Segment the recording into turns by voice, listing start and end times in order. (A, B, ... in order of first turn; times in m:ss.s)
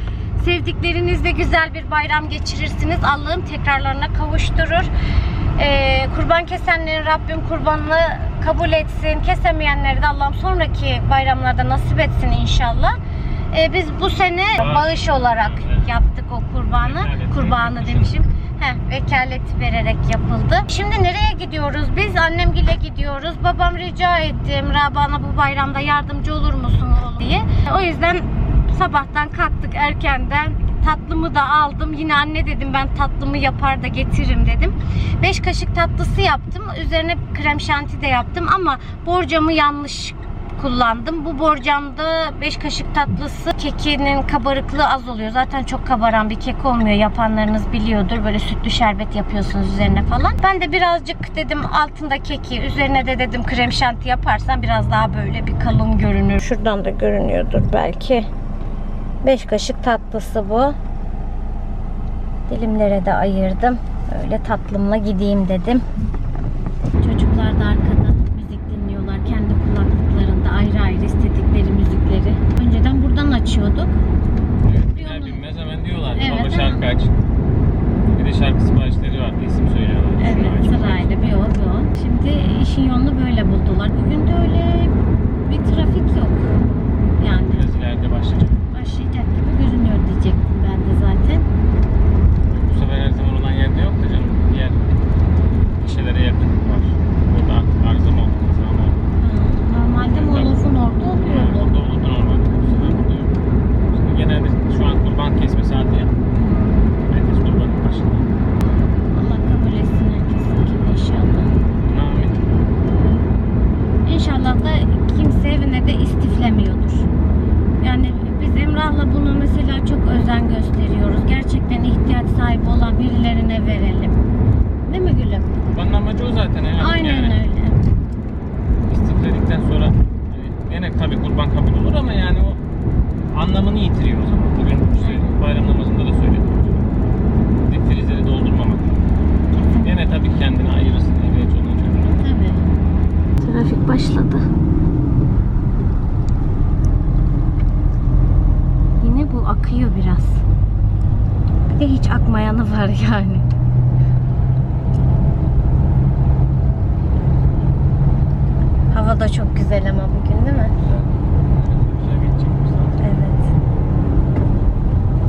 0:00.4-0:04.9 A
0:05.6-0:13.0 A
0:13.5-0:58.3 A
0:14.6-0:15.9 B
0:16.8-0:18.1 B
0:59.2-1:00.8 A
1:02.5-1:05.8 A
1:07.0-1:14.0 A
1:14.6-1:17.2 B
1:15.0-1:15.4 A
1:16.2-1:16.8 A
1:18.1-1:21.2 B
1:20.2-1:26.6 A
1:27.2-1:27.7 A
1:27.5-1:28.7 B
1:28.7-1:31.5 A
1:32.5-1:34.9 B
1:35.8-1:39.0 B
1:39.2-1:41.7 A
1:40.1-1:46.1 B
1:46.4-1:46.8 A
1:47.1-1:48.3 B
1:49.1-1:51.5 A
1:51.8-1:52.5 B
1:54.0-1:57.1 A
1:57.8-2:04.2 A
2:04.9-2:05.6 A
2:05.7-2:07.4 B
2:06.8-2:07.8 A
2:08.9-2:12.6 B
2:13.3-2:16.9 B
2:15.0-2:15.3 A
2:17.6-2:19.0 B
2:19.5-2:20.0 A
2:19.8-2:22.2 B
2:22.2-2:22.6 A
2:23.4-2:24.4 A
2:29.0-2:30.4 A
2:31.7-2:33.4 A
2:38.9-2:40.7 A
2:40.8-2:43.2 B
2:43.0-2:43.5 A